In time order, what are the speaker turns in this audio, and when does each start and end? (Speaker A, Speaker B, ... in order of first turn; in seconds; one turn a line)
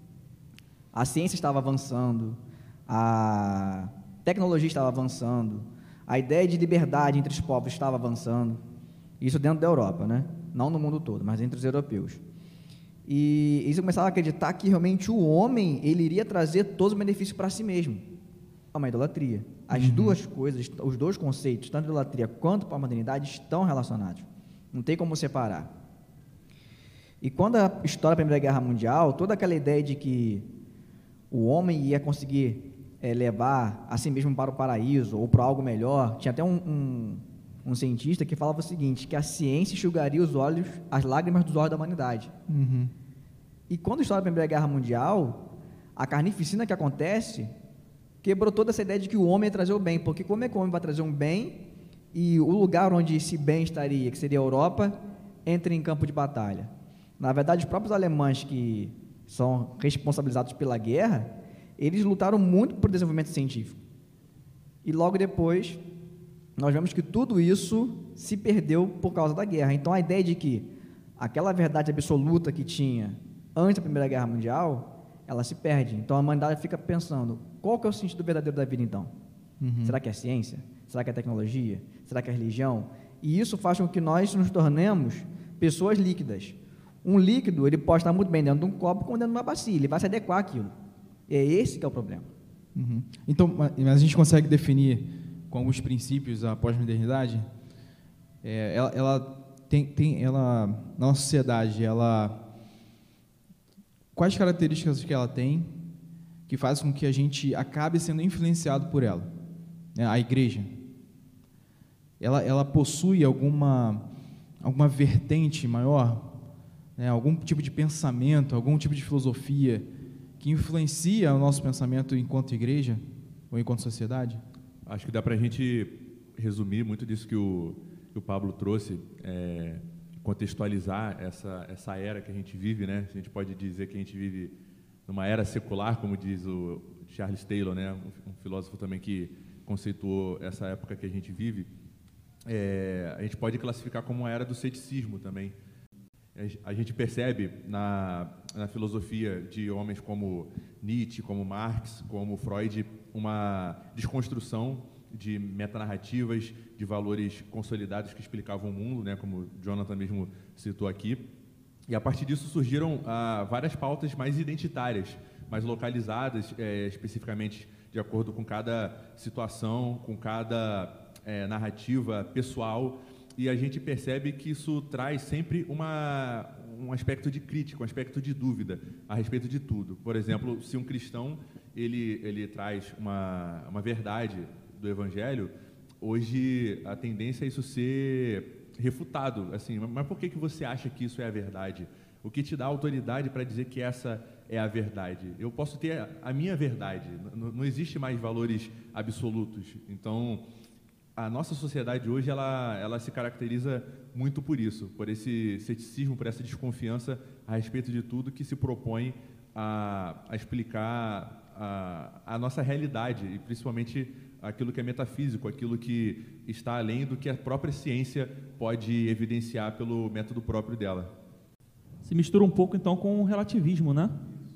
Speaker A: 0.9-8.6
Speaker A: 9.2-12.2
Speaker A: 13.1-18.1
Speaker A: 18.7-25.7
Speaker B: 19.7-20.2
Speaker A: 27.2-30.5
Speaker A: 31.3-42.3
Speaker B: 42.5-42.9
Speaker A: 43.7-47.5
Speaker A: 48.2-63.8
Speaker A: 64.8-65.8
Speaker A: 66.6-79.1
Speaker B: 79.6-80.0
Speaker A: 79.8-90.7
Speaker A: 91.3-92.3
Speaker B: 92.7-97.5
Speaker B: 98.4-102.4
Speaker B: 104.1-105.7
Speaker B: 106.5-109.3
Speaker B: 109.9-110.7
Speaker B: 112.2-114.0
Speaker B: 114.6-116.3
Speaker B: 117.0-119.9
Speaker B: 120.4-124.4
Speaker C: 124.8-134.6
Speaker C: 135.1-141.7
Speaker C: 142.4-145.5
Speaker C: 146.3-161.2
Speaker C: 161.9-200.4
Speaker C: 201.2-221.1
Speaker D: 222.0-224.2